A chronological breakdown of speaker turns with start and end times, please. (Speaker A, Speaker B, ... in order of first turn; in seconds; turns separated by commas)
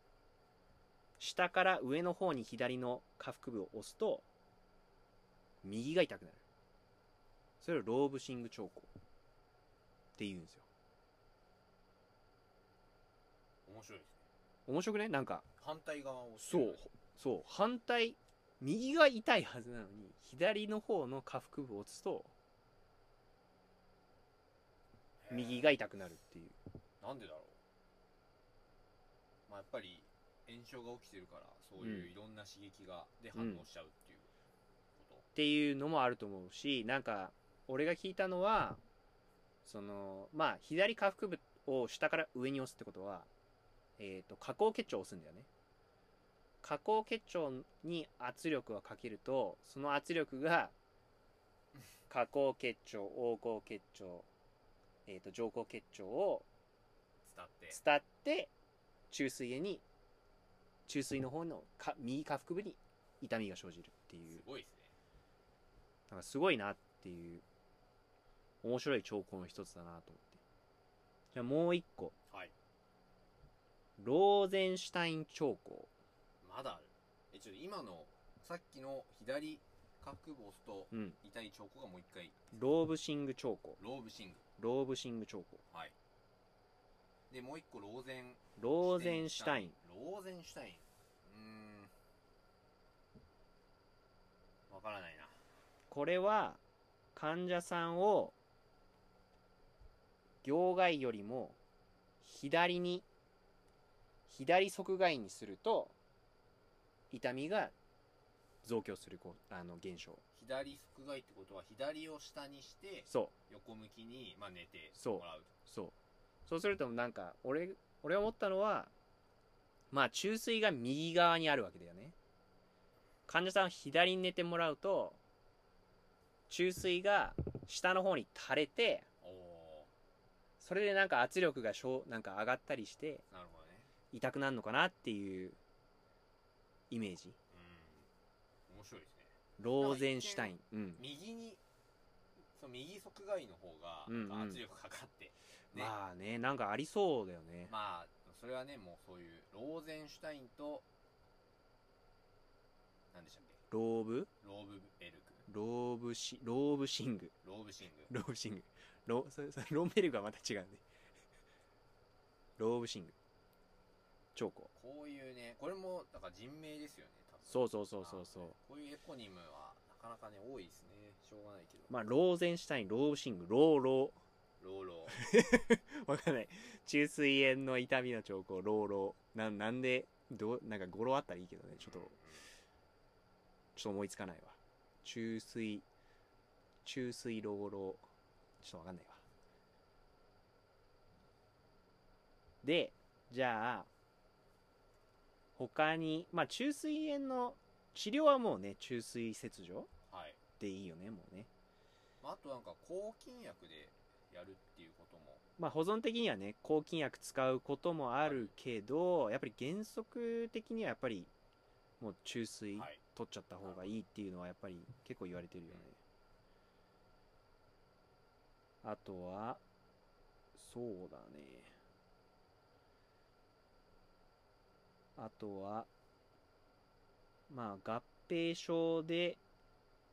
Speaker A: 1.2-4.2, Speaker A: 5.6-6.4, Speaker A: 7.6-8.9, Speaker A: 10.2-10.7, Speaker B: 13.7-14.2, Speaker A: 14.7-15.4, Speaker B: 15.6-16.9, Speaker A: 16.4-22.3, Speaker B: 25.2-25.7, Speaker A: 25.3-26.6, Speaker B: 27.0-27.6, Speaker B: 29.5-34.3, Speaker A: 31.8-32.1, Speaker A: 33.3-33.6, Speaker B: 35.0-35.3, Speaker A: 35.3-38.8, Speaker A: 39.6-43.3, Speaker A: 44.0-45.5, Speaker A: 46.6-50.7, Speaker A: 52.1-54.3, Speaker A: 55.1-56.5, Speaker B: 57.2-57.8, Speaker A: 57.7-58.5, Speaker A: 59.1-59.8, Speaker A: 60.9-64.4, Speaker B: 64.3-64.9, Speaker A: 66.1-67.4, Speaker A: 68.6-70.4, Speaker A: 71.3-72.1, Speaker A: 74.0-75.9, Speaker B: 76.4-82.5, Speaker A: 80.9-81.2, Speaker A: 82.5-83.8, Speaker B: 83.8-84.4, Speaker A: 84.6-85.6, Speaker B: 87.3-91.9, Speaker A: 88.6-89.7, Speaker B: 94.7-95.4, Speaker A: 95.9-96.6, Speaker A: 97.1-98.3, Speaker A: 100.4-101.6, Speaker A: 102.2-103.0, Speaker A: 104.3-105.9, Speaker A: 107.1-107.7, Speaker A: 108.6-110.2, Speaker B: 110.3-115.5, Speaker A: 114.9-115.9, Speaker A: 116.5-118.9, Speaker A: 119.9-122.2, Speaker A: 123.3-125.2, Speaker A: 126.5-129.1, Speaker B: 129.2-129.9, Speaker A: 130.6-133.2, Speaker B: 133.3-133.9, Speaker A: 134.1-135.6, Speaker A: 136.9-137.4, Speaker B: 137.5-138.1, Speaker B: 138.7-141.6, Speaker A: 139.6-141.0, Speaker B: 142.5-145.9, Speaker A: 144.1-144.6, Speaker A: 145.7-147.7, Speaker B: 147.7-150.8, Speaker B: 153.1-153.6, Speaker A: 153.7-154.3, Speaker B: 154.4-155.5, Speaker A: 155.5-157.3, Speaker B: 157.4-158.1, Speaker A: 158.1-160.8, Speaker A: 162.6-163.1, Speaker A: 164.3-164.7, Speaker B: 164.7-171.9, Speaker A: 167.5-168.5, Speaker A: 171.9-174.2, Speaker B: 174.6-175.2, Speaker A: 175.1-182.2, Speaker B: 181.8-182.5, Speaker A: 183.8-185.8, Speaker A: 186.8-188.0, Speaker A: 188.6-189.2, Speaker A: 192.6-193.9, Speaker A: 195.6-199.9, Speaker B: 200.1-200.4, Speaker A: 200.6-201.5, Speaker B: 202.2-205.4, Speaker A: 205.6-211.3, Speaker B: 208.2-208.5, Speaker A: 212.0-216.0, Speaker B: 212.7-213.0, Speaker B: 213.6-214.0, Speaker A: 218.8-219.6, Speaker A: 220.5-221.7, Speaker A: 225.2-225.9, Speaker A: 227.5-229.4